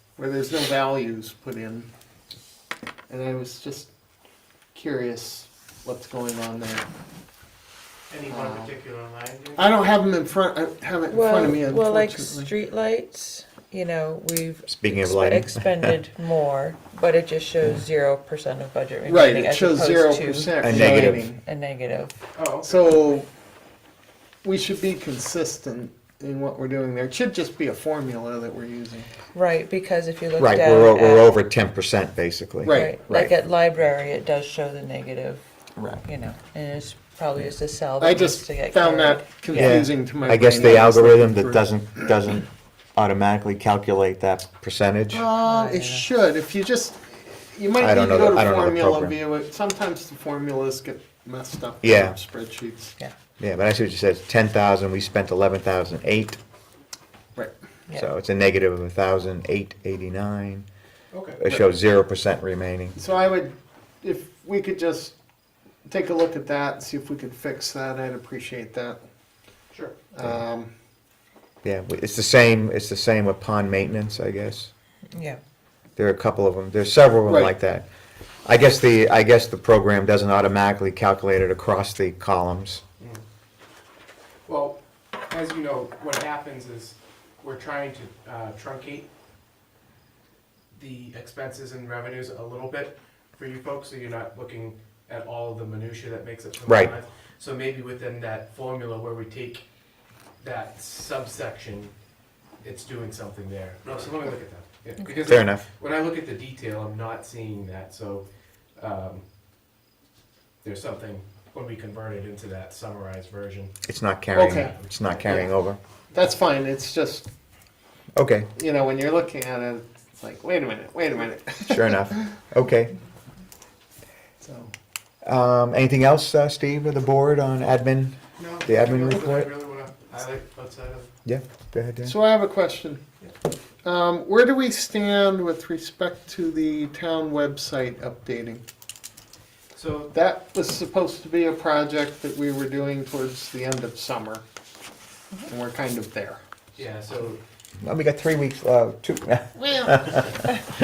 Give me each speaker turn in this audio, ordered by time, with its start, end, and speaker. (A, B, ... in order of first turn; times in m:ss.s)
0:00.2-0:01.9 A
0:03.1-0:03.9 A
0:04.7-0:06.9 A
0:08.1-0:09.7 B
0:08.3-0:08.7 A
0:09.6-0:12.5 A
0:11.1-0:22.1 C
0:14.7-0:16.0 D
0:19.0-0:21.4 A
0:20.6-0:21.2 D
0:22.3-0:22.9 B
0:22.6-0:23.3 A
0:24.4-0:29.1 A
0:29.3-0:31.3 C
0:30.4-0:33.3 D
0:32.6-0:33.0 A
0:32.7-0:35.4 C
0:35.8-0:36.0 D
0:36.0-0:39.9 C
0:38.0-0:41.7 A
0:39.5-0:45.2 D
0:40.5-0:40.8 C
0:45.1-0:52.9 A
0:45.4-0:46.1 C
0:47.8-0:49.1 D
0:51.8-0:52.2 D
0:53.4-0:56.4 D
0:57.9-1:00.7 D
1:01.1-1:01.4 B
1:01.4-1:03.0 D
1:03.0-1:05.2 A
1:05.8-1:09.0 A
1:09.7-1:10.0 B
1:10.1-1:10.7 A
1:11.6-1:14.7 D
1:15.1-1:15.4 C
1:16.0-1:17.9 D
1:17.3-1:17.5 A
1:18.4-1:22.8 D
1:24.4-1:29.1 B
1:30.7-1:39.6 B
1:36.6-1:36.9 D
1:40.4-1:41.9 B
1:42.6-1:49.2 B
1:45.0-1:45.3 C
1:45.3-1:45.7 D
1:50.6-1:53.7 B
1:53.8-1:55.8 D
1:54.3-1:55.5 A
1:54.6-1:55.4 B
1:56.1-1:57.3 A
1:58.2-1:58.5 D
1:58.5-2:02.1 A
2:01.7-2:02.9 D
2:04.4-2:04.7 A
2:05.2-2:09.5 D
2:08.4-2:11.1 B
2:11.2-2:12.1 D
2:12.0-2:13.0 A
2:13.8-2:18.6 A
2:19.7-2:20.1 B
2:20.1-2:24.4 A
2:25.5-2:26.4 A
2:26.8-2:27.4 B
2:27.8-2:30.5 D
2:29.6-2:29.9 A